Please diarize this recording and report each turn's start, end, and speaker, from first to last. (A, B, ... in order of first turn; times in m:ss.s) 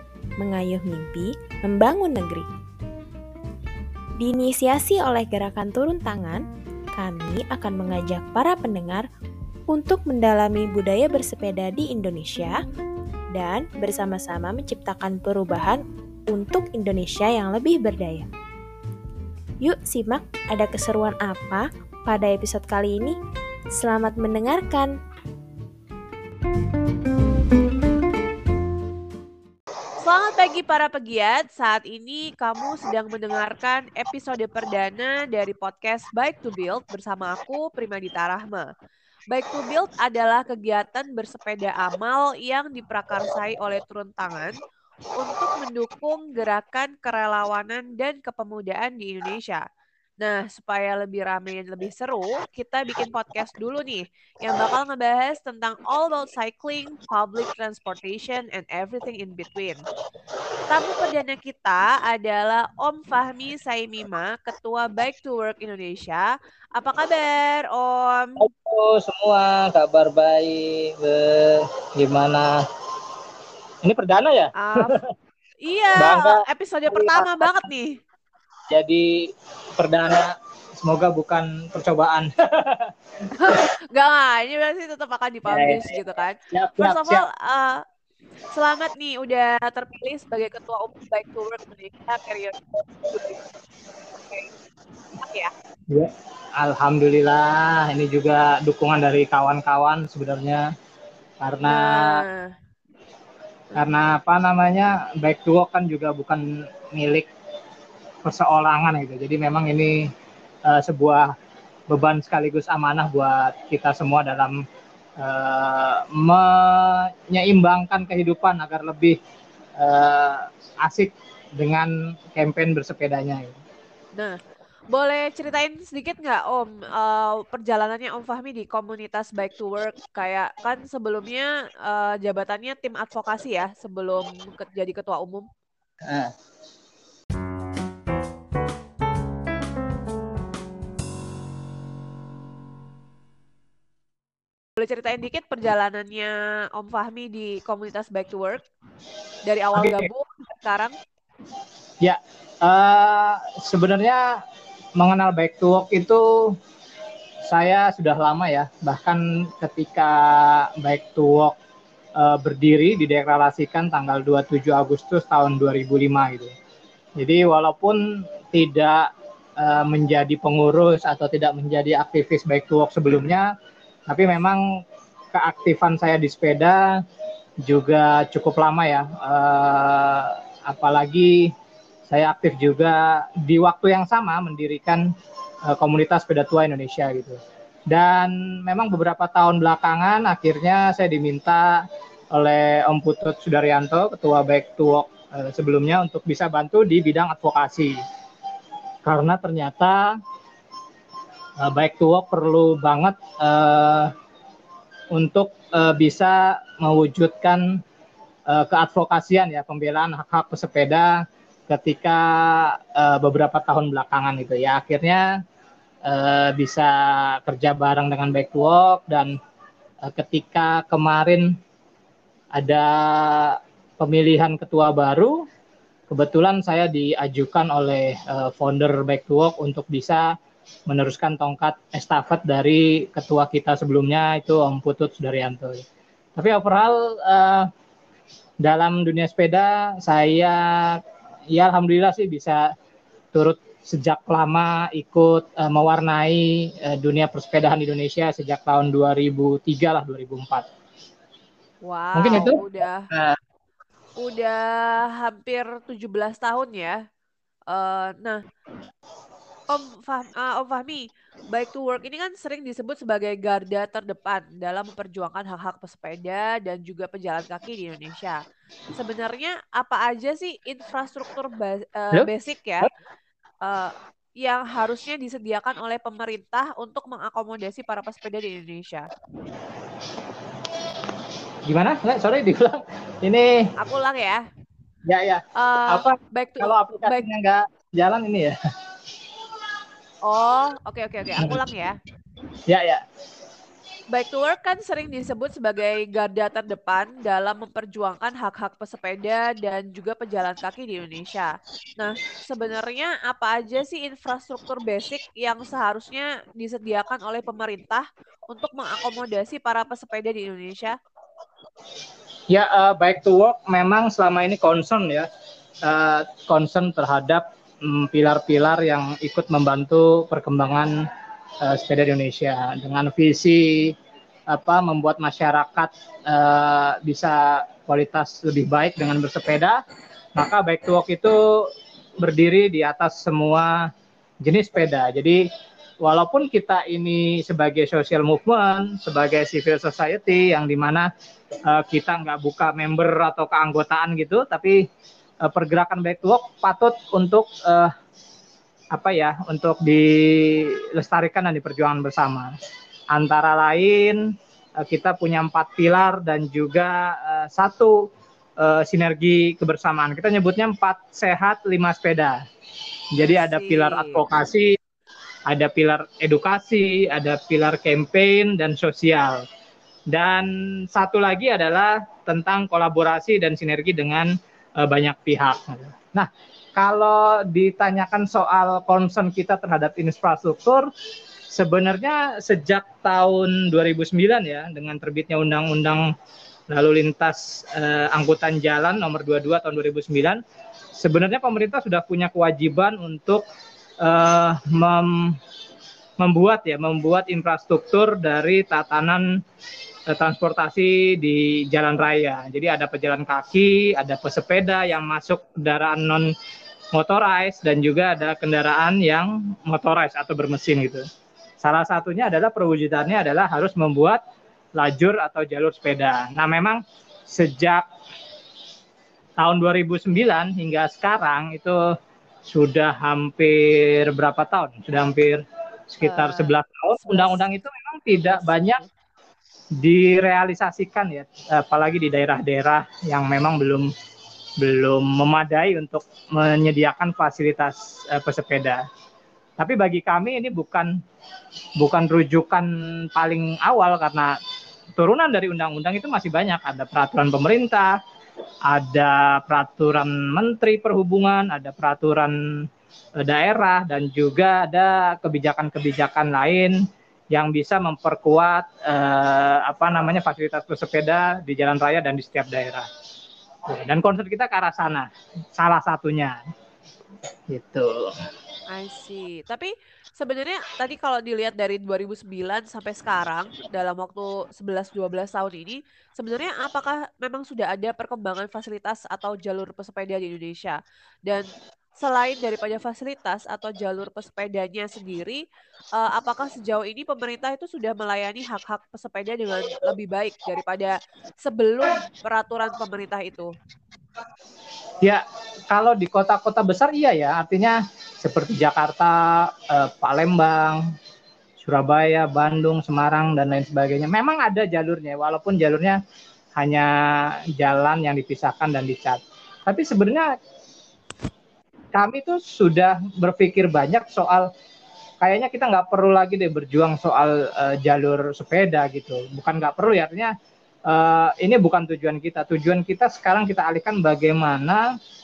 0:00.4-0:02.5 A
0:04.2-0:06.4 A
0:06.9-0:09.1 A
0:09.7-0:12.6 A
0:13.3-0:18.3 A
0:19.6-0:23.1 A
0:23.8-0:24.9 A
0:30.0-0:38.7 B
0:39.3-0:44.6 B
0:45.2-0:49.6 B
0:50.2-0:59.8 B
1:00.7-1:08.4 B
1:08.4-1:12.6 C
1:13.8-1:15.1 C
1:14.6-1:15.0 B
1:15.6-1:18.0 B
1:16.0-1:17.6 C
1:18.7-1:22.9 C
1:23.4-1:27.8 B
1:25.5-1:26.0 C
1:26.5-1:27.2 C
1:28.5-1:33.3 B
1:35.2-1:35.5 B
1:35.9-1:40.7 C
1:41.4-1:42.2 C
1:41.6-1:42.5 B
1:43.7-1:47.3 C
1:48.2-1:50.1 C
1:50.6-1:51.3 C
1:51.9-1:54.6 C
1:55.2-1:59.2 C
1:59.8-2:03.6 C
2:04.9-2:15.5 B
2:16.0-2:16.3 C
2:24.8-2:28.6 B
2:29.4-2:31.0 B
2:29.7-2:30.1 C
2:32.0-2:34.4 C
2:35.0-2:36.6 C
2:37.5-2:41.6 C
2:42.2-2:46.5 C
2:47.2-2:53.5 C
2:54.1-2:54.8 C
2:55.3-2:56.9 C
2:57.6-3:01.5 C
3:02.1-3:05.1 C
3:05.7-3:07.4 C
3:07.9-3:18.0 C
3:19.0-3:20.2 C
3:21.6-3:24.1 C
3:25.1-3:27.8 C
3:28.5-3:35.3 C
3:36.0-3:39.4 C
3:40.0-3:41.6 C
3:42.6-3:45.5 C
3:46.1-3:50.3 C
3:50.9-3:57.7 C
3:58.6-4:02.7 C
4:03.3-4:10.7 C
4:11.8-4:13.1 B
4:12.1-4:13.4 C
4:14.2-4:17.0 B
4:17.7-4:18.4 B
4:19.7-4:28.4 B
4:28.9-4:32.9 B
4:33.6-4:39.1 B
4:41.7-4:43.6 C
4:43.8-4:44.4 B
4:45.0-4:48.6 C
4:45.6-4:47.2 B
4:50.2-4:52.0 B
4:52.7-4:53.0 C
4:54.1-5:11.0 B
5:12.5-5:15.3 C
5:15.8-5:21.0 C
5:21.6-5:24.0 C
5:24.5-5:29.8 C
5:30.4-5:33.9 C
5:34.4-5:35.4 C
5:36.0-5:41.1 C
5:41.7-5:44.8 C
5:45.4-5:47.9 C
5:48.9-5:52.5 C
5:53.1-5:58.1 C
5:58.6-6:02.4 C
6:03.1-6:04.8 C
6:03.3-6:04.2 B
6:05.5-6:09.4 C
6:10.1-6:20.9 C
6:21.5-6:26.1 C
6:26.7-6:30.4 C
6:31.0-6:33.4 C
6:34.0-6:35.4 C
6:36.2-6:39.3 C
6:40.1-6:46.3 C
6:46.9-6:51.0 C
6:51.6-6:54.2 C
6:54.8-6:57.9 C
6:59.4-7:01.8 C
7:02.5-7:08.8 C
7:06.0-7:07.4 B
7:08.1-7:08.9 B
7:09.8-7:13.9 C
7:14.6-7:18.8 C
7:19.6-7:20.9 C
7:21.8-7:24.3 C
7:25.0-7:28.0 C
7:28.7-7:32.7 C
7:33.2-7:36.8 C
7:37.3-7:42.9 C
7:43.7-7:46.4 C
7:47.5-7:48.1 C
7:48.7-8:01.5 B
8:02.0-8:05.4 B
8:06.0-8:13.5 B
8:15.0-8:20.8 C
8:21.6-8:26.0 C
8:26.6-8:30.3 C
8:31.9-8:34.5 C
8:35.2-8:40.3 C
8:40.9-8:44.9 C